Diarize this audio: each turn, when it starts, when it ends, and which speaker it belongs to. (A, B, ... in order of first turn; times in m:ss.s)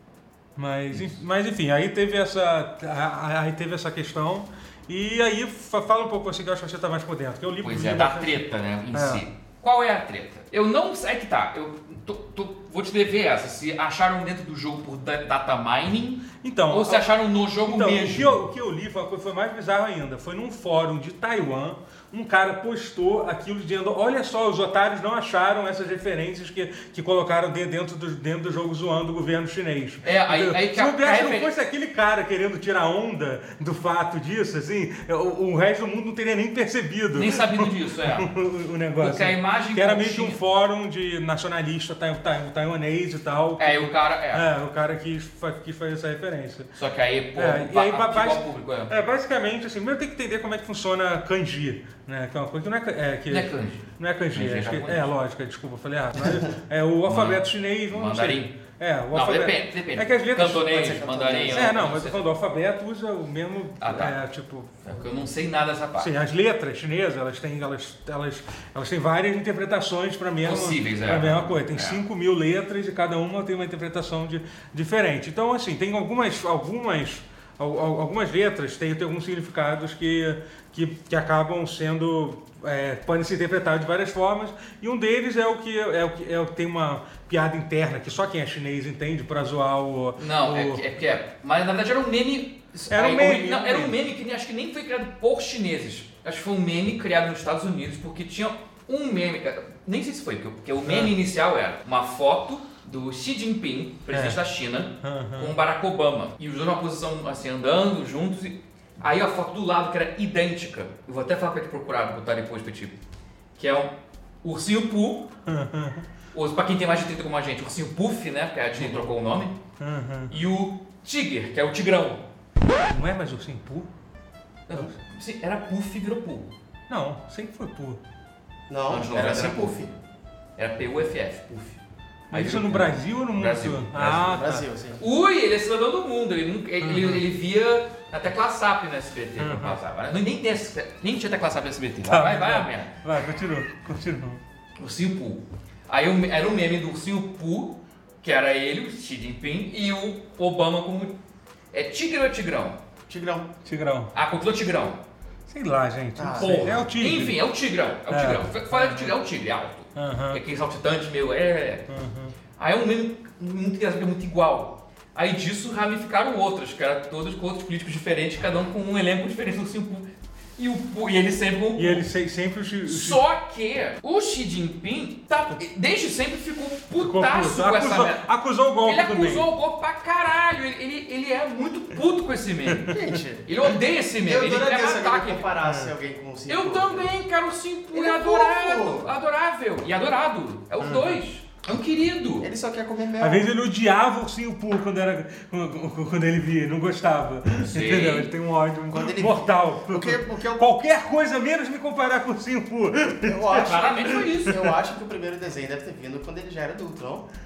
0:00.6-0:09.2 A
0:07.6-0:18.4 B
0:16.4-0:17.1 A
0:17.6-0:46.7 A
0:30.0-0:31.5 B
0:37.2-0:38.3 B
0:39.0-0:40.4 B
0:43.6-0:44.4 B
0:46.8-0:48.9 B
0:47.4-1:04.7 A
0:53.3-0:55.1 B
0:57.1-0:58.5 B
0:59.1-1:02.2 B
1:00.7-1:01.8 C
1:03.8-1:04.2 B
1:04.8-1:06.1 B
1:06.0-1:30.8 A
1:10.4-1:12.0 B
1:30.2-1:53.0 B
1:32.9-1:34.0 A
1:40.8-1:41.1 A
1:44.1-1:44.4 A
1:45.0-1:45.5 A
1:53.6-1:53.9 B
1:54.4-1:55.3 B
1:55.5-1:56.1 A
1:56.3-1:59.6 B
1:59.8-2:00.3 A
2:00.3-2:02.2 B
2:02.9-2:03.9 A
2:04.7-2:06.5 B
2:06.9-2:08.0 A
2:08.7-2:09.9 C
2:08.9-2:09.9 B
2:10.6-2:11.8 B
2:12.3-2:14.4 B
2:12.3-2:14.6 A
2:14.0-2:15.0 C
2:15.0-2:22.9 B
2:16.8-2:17.2 A
2:19.4-2:19.8 A
2:22.1-2:24.4 A
2:24.8-2:31.2 B
2:31.7-2:32.8 B
2:33.1-2:33.5 C
2:33.6-2:34.1 A
2:34.2-2:35.0 B
2:35.5-2:37.4 A
2:36.2-2:36.8 C
2:36.3-2:41.9 B
2:38.1-2:39.1 A
2:40.0-2:40.4 A
2:41.9-2:42.3 A
2:42.6-2:52.1 B
2:51.8-2:53.2 A
2:52.8-2:58.2 B
2:57.0-2:59.5 A
2:58.8-3:05.5 B
3:02.7-3:03.0 A
3:02.9-3:03.5 C
3:04.2-3:07.1 C
3:05.6-3:05.9 A
3:06.5-3:12.5 B
3:07.9-3:09.1 C
3:10.8-3:11.2 A
3:12.4-3:13.5 C
3:13.2-3:24.4 A
3:17.5-3:18.3 B
3:18.9-3:20.7 C
3:23.2-3:27.3 C
3:23.6-3:24.7 B